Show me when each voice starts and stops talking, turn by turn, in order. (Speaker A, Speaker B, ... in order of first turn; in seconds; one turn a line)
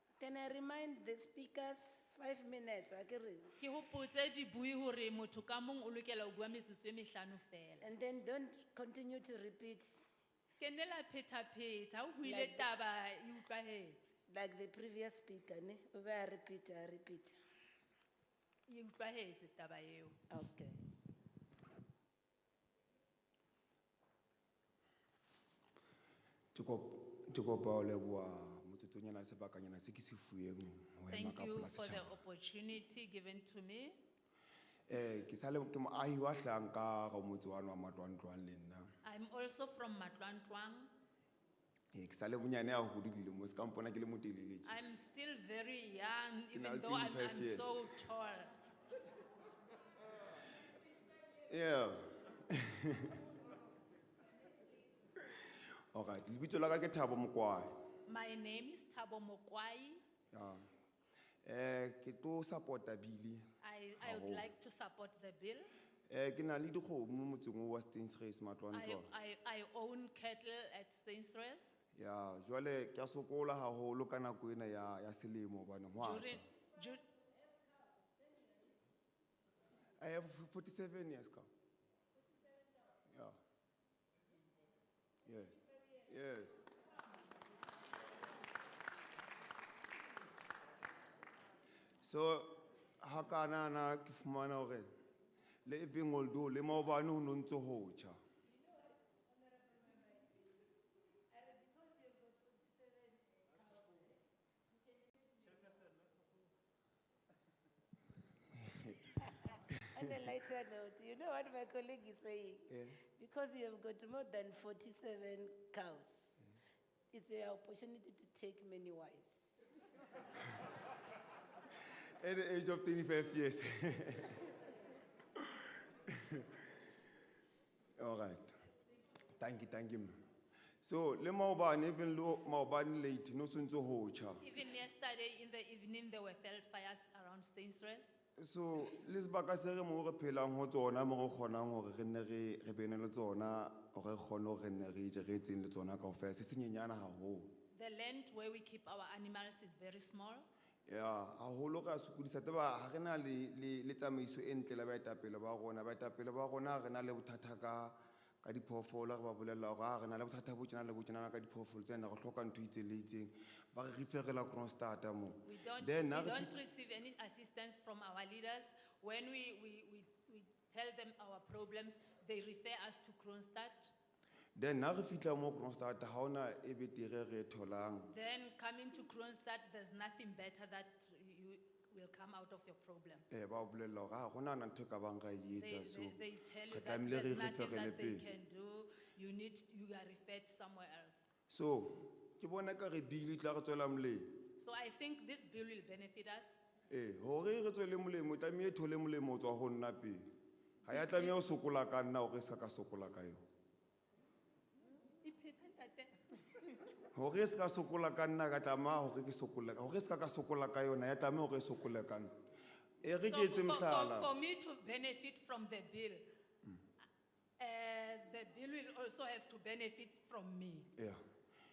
Speaker A: 0.2-3.5
Speaker B: 3.6-7.9
Speaker A: 7.8-10.1
Speaker B: 10.6-14.1
Speaker A: 12.2-12.7
Speaker A: 14.3-17.4
Speaker B: 18.7-20.2
Speaker A: 20.3-20.8
Speaker C: 26.5-32.1
Speaker B: 31.1-34.0
Speaker C: 34.9-38.9
Speaker B: 39.0-40.9
Speaker C: 41.9-44.8
Speaker B: 44.6-48.5
Speaker C: 46.5-47.9
Speaker C: 51.5-53.2
Speaker C: 55.9-57.7
Speaker B: 58.0-60.0
Speaker C: 60.3-60.6
Speaker C: 61.5-63.4
Speaker B: 63.6-65.7
Speaker C: 64.0-64.5
Speaker C: 66.1-69.1
Speaker B: 68.7-71.7
Speaker C: 72.0-76.4
Speaker B: 76.0-77.0
Speaker C: 80.0-81.5
Speaker C: 83.1-83.4
Speaker C: 85.2-86.7
Speaker C: 92.0-94.9
Speaker C: 95.6-98.2
Speaker A: 99.6-100.4
Speaker A: 101.3-104.2
Speaker A: 105.0-105.5
Speaker C: 108.6-109.1
Speaker A: 109.2-116.5
Speaker C: 109.8-110.1
Speaker C: 112.7-113.0
Speaker A: 117.1-119.6
Speaker C: 122.2-124.5
Speaker C: 125.4-126.8
Speaker C: 128.0-128.5
Speaker C: 129.4-130.1
Speaker C: 130.8-134.4
Speaker B: 134.4-138.1
Speaker C: 138.4-147.5
Speaker B: 147.7-150.4
Speaker C: 150.9-166.5
Speaker B: 165.4-173.9
Speaker C: 174.6-178.1
Speaker B: 178.1-183.2
Speaker C: 183.3-188.3
Speaker B: 185.6-191.2
Speaker C: 191.5-194.3
Speaker B: 194.6-196.5
Speaker C: 196.9-200.2
Speaker C: 200.8-203.4
Speaker B: 200.9-201.3
Speaker B: 205.2-206.7
Speaker C: 207.1-212.3
Speaker C: 213.0-214.3
Speaker B: 213.1-216.3
Speaker B: 217.6-220.9